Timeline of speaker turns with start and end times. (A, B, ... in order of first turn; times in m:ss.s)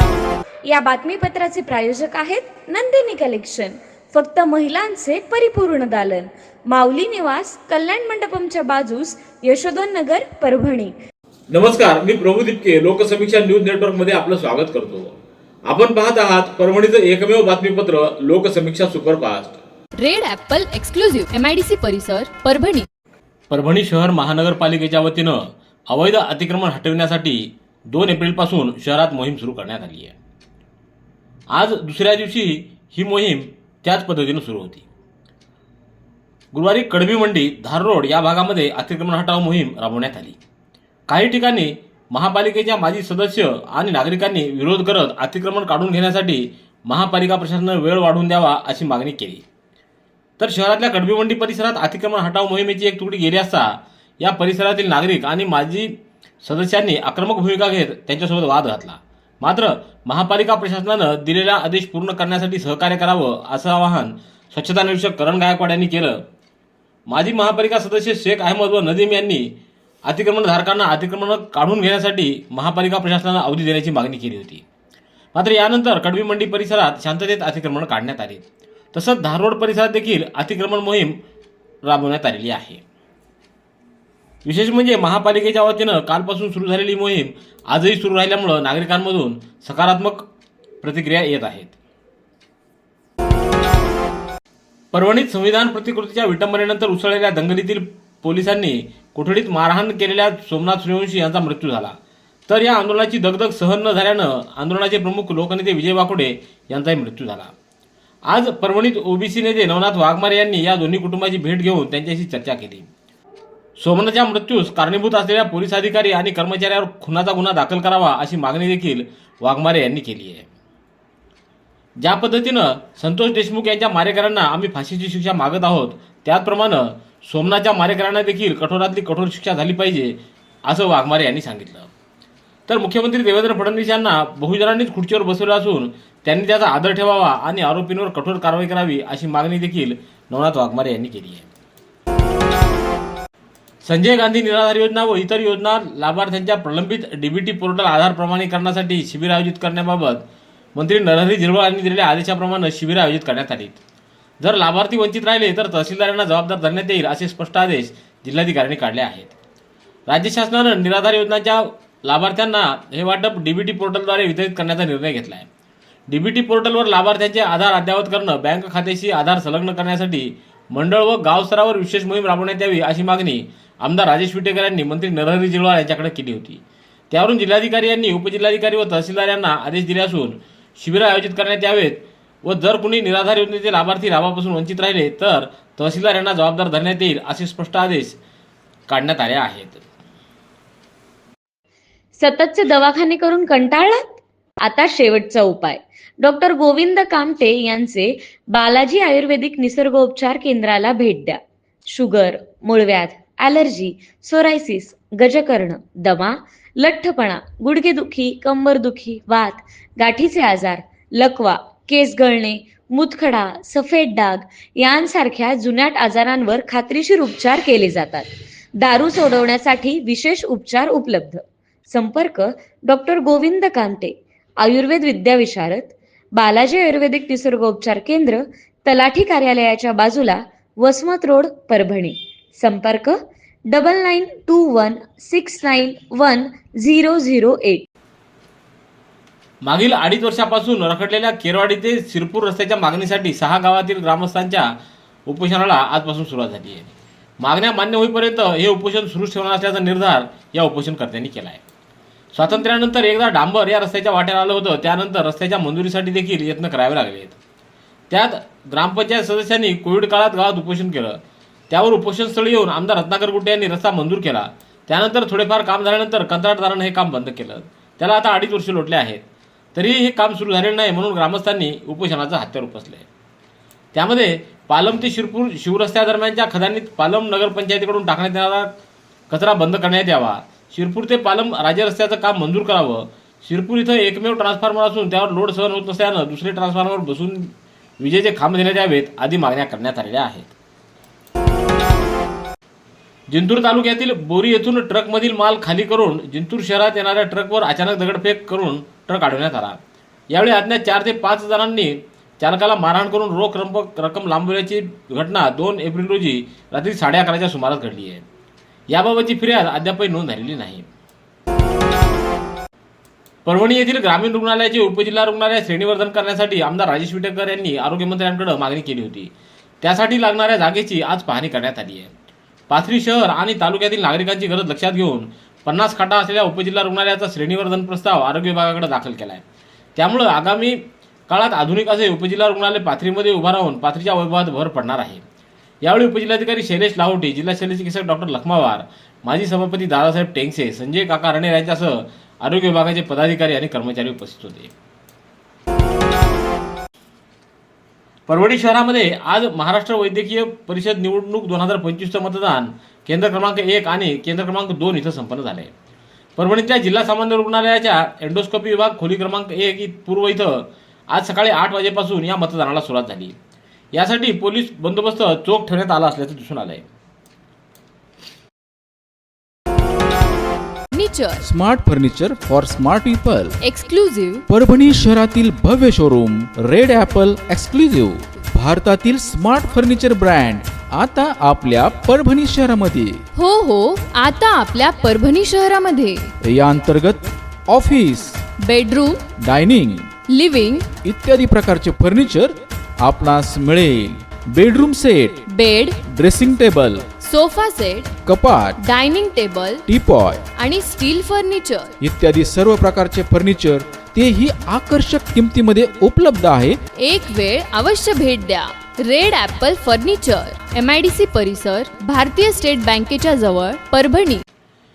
0:00.6-0:10.9 A
0:11.5-0:15.1 B
0:15.7-0:19.6 B
0:20.0-0:22.9 C
0:23.5-0:30.1 B
0:31.5-0:34.8 B
0:36.5-0:40.4 B
0:41.1-0:49.4 B
0:50.4-1:06.2 B
1:07.1-1:09.5 B
1:10.0-1:14.6 B
1:15.3-1:21.2 B
1:21.8-1:22.8 B
1:24.4-1:30.3 B
1:30.8-1:31.7 B
1:34.9-1:42.0 B
1:42.5-1:47.5 B
1:48.3-1:52.9 B
1:53.8-2:00.5 B
2:02.0-2:11.9 B
2:12.7-2:21.5 B
2:23.8-2:30.2 B
2:30.7-2:33.8 B
2:34.4-2:39.3 B
2:40.1-2:45.5 B
2:46.1-3:08.2 B
3:08.9-3:09.8 B
3:12.2-3:21.4 A
3:21.9-3:53.2 A
3:53.7-3:57.9 A
3:59.6-4:04.7 B
4:05.3-4:11.6 B
4:12.3-4:17.4 B
4:18.1-4:21.2 B
4:21.7-4:29.2 B
4:29.7-4:33.0 B
4:33.9-4:38.7 B
4:39.3-4:50.5 B
4:53.3-4:59.8 B
5:00.3-5:08.2 B
5:08.9-5:10.9 B
5:13.4-5:22.1 B
5:22.7-5:29.4 B
5:30.0-5:35.2 B
5:35.8-5:44.7 B
5:48.3-5:55.7 B
5:56.4-6:03.3 B
6:03.9-6:06.8 B
6:10.9-6:11.4 C
6:11.4-6:13.6 D
6:13.6-6:14.4 C
6:14.5-6:23.2 D
6:23.3-6:26.3 C
6:26.4-6:28.4 D
6:28.6-6:29.2 C
6:29.4-6:30.1 D
6:30.3-6:30.9 C
6:31.0-6:35.4 D
6:35.5-6:36.0 C
6:36.1-6:37.1 D
6:37.2-6:38.2 C
6:38.2-6:38.8 D
6:38.8-6:39.8 C
6:39.9-6:40.4 D
6:40.5-6:41.9 C
6:42.0-6:46.8 D
6:47.0-6:54.4 C